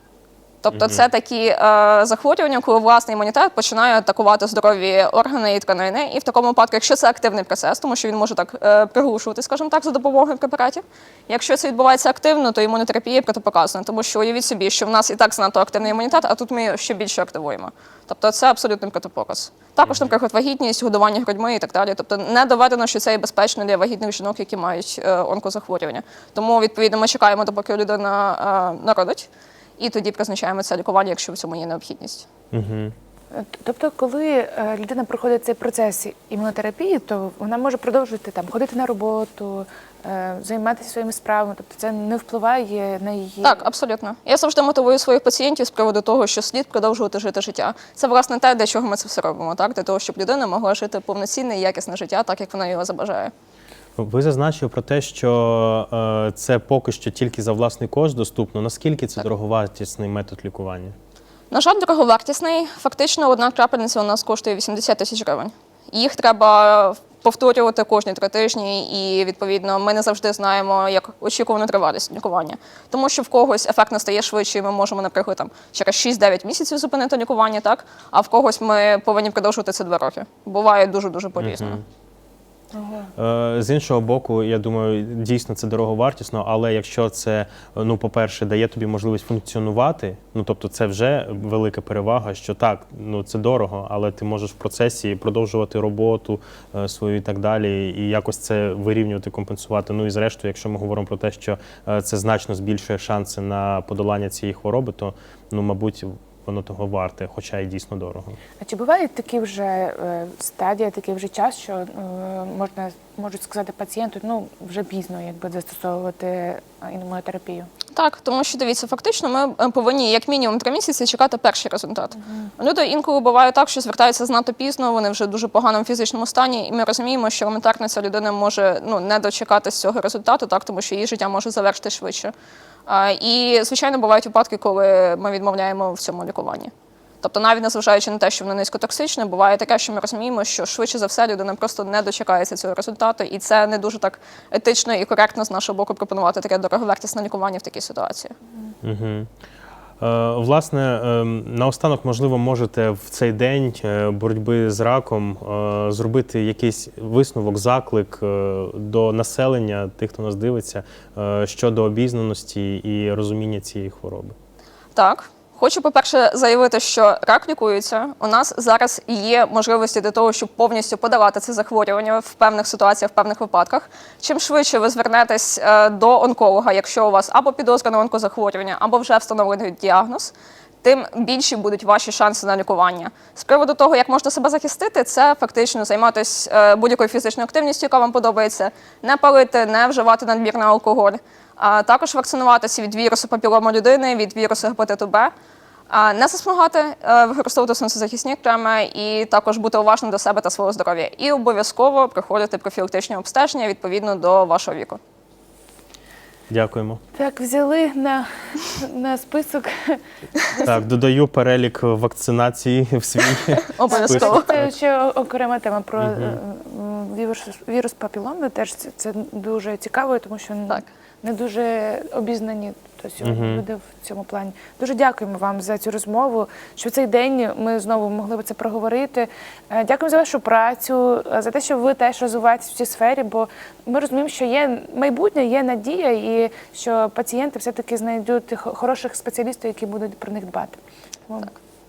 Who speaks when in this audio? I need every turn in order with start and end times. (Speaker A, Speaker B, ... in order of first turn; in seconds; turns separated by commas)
Speaker A: 0.6-29.3, Speaker B: 0.7-1.0, Speaker B: 19.8-20.1, Speaker A: 29.8-32.3, Speaker B: 32.5-32.9, Speaker C: 33.3-43.6, Speaker A: 43.4-53.3, Speaker B: 54.0-61.0, Speaker A: 61.5-81.8, Speaker B: 81.4-81.8, Speaker C: 82.8-83.1, Speaker B: 83.2-108.4, Speaker C: 108.6-117.7, Speaker A: 118.0-132.3, Speaker C: 122.2-122.5, Speaker A: 132.9-136.7, Speaker A: 137.2-148.3, Speaker B: 148.8-149.3, Speaker B: 150.0-164.4, Speaker A: 164.9-195.3, Speaker A: 195.9-205.0, Speaker B: 206.5-207.0, Speaker C: 207.2-210.0, Speaker B: 210.6-214.7, Speaker A: 213.6-214.5, Speaker C: 213.9-240.8, Speaker B: 216.0-216.4, Speaker B: 223.2-223.6, Speaker C: 241.3-241.5